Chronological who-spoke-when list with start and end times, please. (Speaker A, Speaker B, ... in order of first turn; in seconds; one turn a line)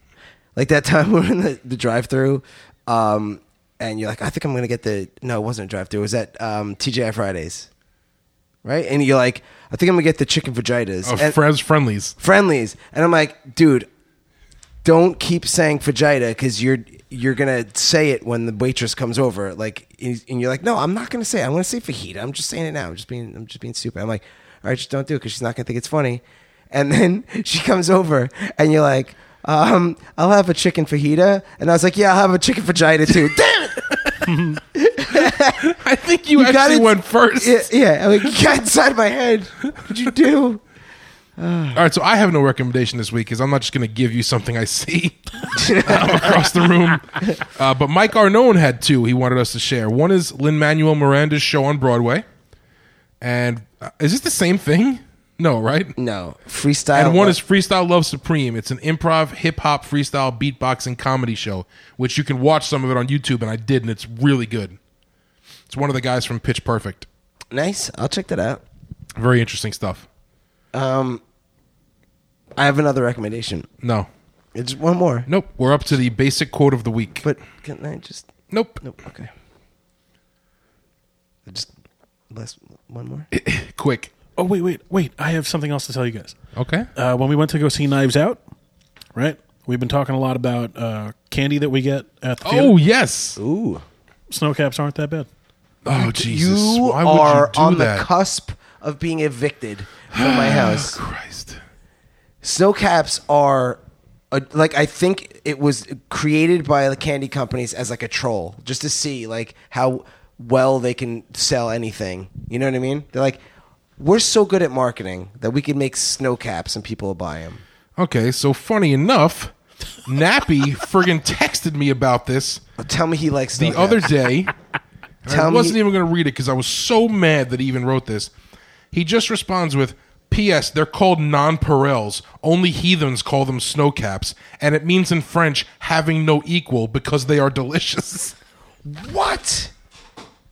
Speaker A: 0.6-7.7
Speaker A: 8.6-11.4
Speaker B: 11.0-12.2
Speaker A: 12.2-13.9
Speaker A: 14.8-35.7
Speaker C: 34.3-34.6
Speaker B: 35.1-37.7
Speaker A: 36.4-40.6
Speaker A: 41.4-41.8
Speaker B: 41.8-52.3
Speaker A: 45.5-46.5
Speaker B: 53.2-56.0
Speaker A: 56.0-57.4
Speaker B: 56.9-64.8
Speaker B: 65.7-67.1
Speaker A: 67.5-68.6
Speaker B: 69.2-70.1
Speaker A: 70.7-71.2
Speaker A: 72.6-73.7
Speaker B: 73.8-74.1
Speaker A: 74.5-75.3
Speaker B: 75.3-77.3
Speaker A: 77.2-78.3
Speaker B: 78.5-78.8
Speaker A: 78.8-79.3
Speaker A: 82.3-83.3
Speaker B: 83.3-84.1
Speaker C: 84.4-86.4
Speaker B: 86.6-86.9
Speaker C: 87.0-88.4
Speaker C: 89.2-92.7
Speaker B: 92.4-93.4
Speaker A: 93.4-93.8
Speaker C: 94.3-95.3
Speaker B: 95.8-98.1
Speaker A: 95.9-101.0
Speaker B: 100.1-101.6
Speaker A: 102.4-103.8
Speaker A: 104.3-113.4
Speaker A: 114.0-117.6
Speaker B: 118.0-119.5
Speaker B: 120.0-122.6
Speaker A: 122.8-124.1
Speaker B: 123.6-124.5
Speaker B: 125.2-128.3
Speaker A: 125.3-125.8
Speaker B: 128.9-138.4
Speaker A: 138.8-139.7